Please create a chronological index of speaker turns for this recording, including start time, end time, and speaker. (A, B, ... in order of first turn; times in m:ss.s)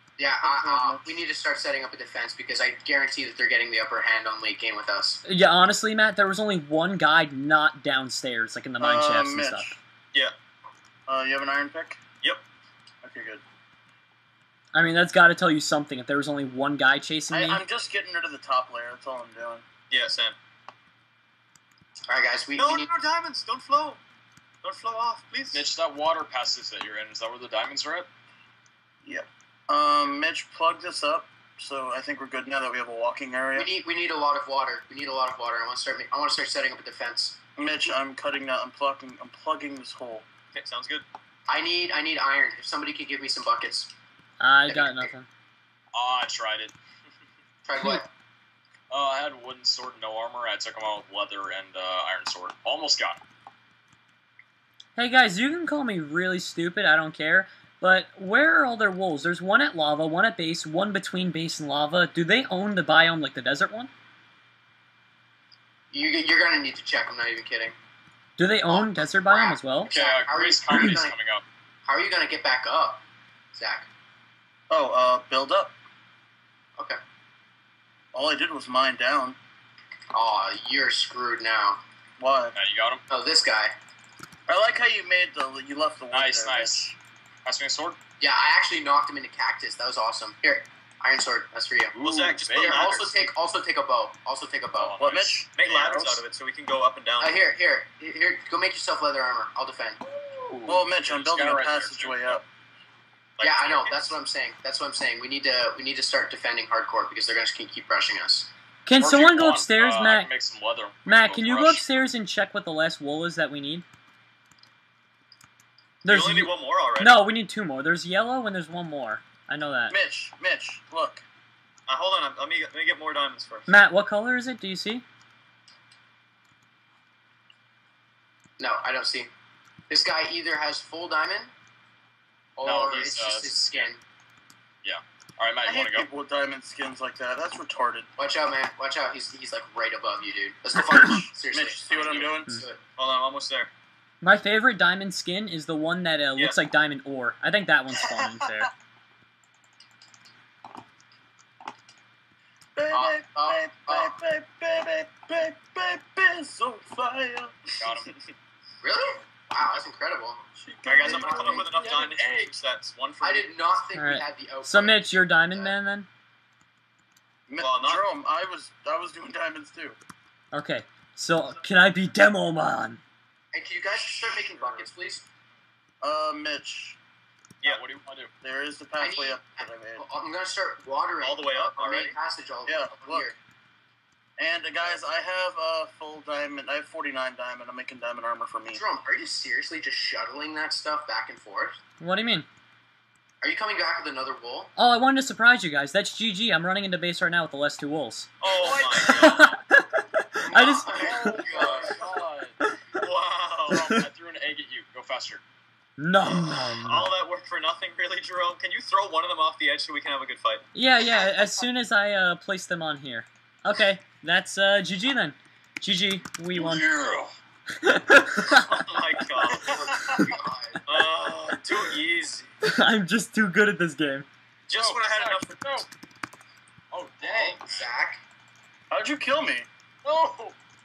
0:00.2-0:05.2 A
0:00.4-0:01.2 B
0:05.2-0:09.7 C
0:08.8-0:09.8 B
0:11.1-0:12.0 B
0:13.0-0:13.4 B
0:14.7-0:17.6 C
0:17.3-0:19.6 B
0:19.9-0:20.4 D
0:22.1-0:22.9 A
0:22.6-0:24.0 D
0:24.6-0:25.6 D
0:25.5-0:28.1 E
0:29.0-0:33.7 B
0:33.6-0:37.4 A
0:37.6-0:40.2 B
0:40.5-0:41.1 D
0:41.5-0:43.9 A
0:44.4-0:45.3 C
0:44.7-0:45.1 A
0:45.9-0:46.8 E
0:47.6-0:48.1 A
0:48.9-0:53.2 E
0:55.0-1:03.9 C
1:05.9-1:07.8 A
1:08.4-1:09.9 C
1:08.7-1:11.2 A
1:09.9-1:11.4 E
1:11.8-1:13.0 A
1:13.5-1:13.9 A
1:14.7-1:15.7 B
1:18.1-1:19.4 B
1:20.1-1:21.8 A
1:22.2-1:22.6 B
1:22.5-1:23.0 E
1:23.1-1:23.7 A
1:24.5-1:27.0 B
1:26.1-1:26.9 E
1:27.4-1:28.0 E
1:28.2-1:32.0 A
1:32.0-1:33.2 E
1:32.0-1:33.0 D
1:32.6-1:35.0 A
1:34.8-1:36.2 E
1:35.0-1:35.5 B
1:35.6-1:37.4 D
1:37.2-1:40.0 A
1:40.1-1:42.4 E
1:40.7-1:42.4 B
1:43.4-1:44.2 D
1:43.4-1:48.5 A
1:48.8-1:50.3 C
1:49.0-1:51.9 E
1:51.0-1:53.8 C
1:56.0-2:00.0 C
1:56.0-1:57.2 D
1:59.9-2:01.2 B
2:01.9-2:03.7 D
2:03.7-2:05.0 C
2:08.6-2:09.3 A
2:09.9-2:11.5 A
2:12.6-2:14.0 A
2:12.6-2:13.9 E
2:14.8-2:16.1 E
2:15.6-2:18.1 B
2:18.2-2:22.8 A
2:21.5-2:22.5 B
2:21.9-2:22.4 E
2:23.0-2:23.7 D
2:24.2-2:28.7 C
2:27.9-2:28.7 B
2:32.8-2:37.5 B
2:32.9-2:34.2 A
2:37.8-2:38.1 E
2:38.0-2:38.3 D
2:38.8-2:40.4 A
2:40.6-2:41.7 B
2:40.9-2:43.5 D
2:41.0-2:41.7 A
2:41.2-2:42.5 E
2:43.2-2:45.8 A
2:44.0-2:46.1 C
2:47.5-2:50.0 B
2:47.6-2:48.1 D
2:50.5-2:53.0 C
2:53.5-2:55.3 A
2:54.0-2:54.8 B
2:56.0-2:57.0 B
2:57.6-2:58.3 E
2:58.4-3:00.0 B
2:59.0-3:03.4 A
3:01.2-3:02.2 D
3:02.7-3:03.3 B
3:04.4-3:08.8 B
3:08.7-3:11.8 A
3:12.0-3:12.5 C
3:13.4-3:14.7 A
3:14.8-3:18.3 C
3:18.4-3:19.5 D
3:18.5-3:19.5 E
3:19.0-3:21.4 C
3:20.5-3:22.0 A
3:21.0-3:22.6 E
3:21.3-3:22.0 D
3:22.9-3:23.8 D
3:23.7-3:25.4 E
3:26.0-3:27.1 C
3:26.2-3:30.6 D
3:30.7-3:36.9 C
3:36.5-3:37.3 B
3:37.8-3:38.7 C
3:38.6-3:39.8 D
3:39.6-3:40.8 A
3:40.9-3:42.5 D
3:42.7-3:44.3 C
3:44.7-3:45.8 D
3:44.7-3:45.9 E
3:46.9-3:47.9 E
3:47.3-3:48.2 A
3:48.9-3:49.7 B
3:50.0-3:50.6 E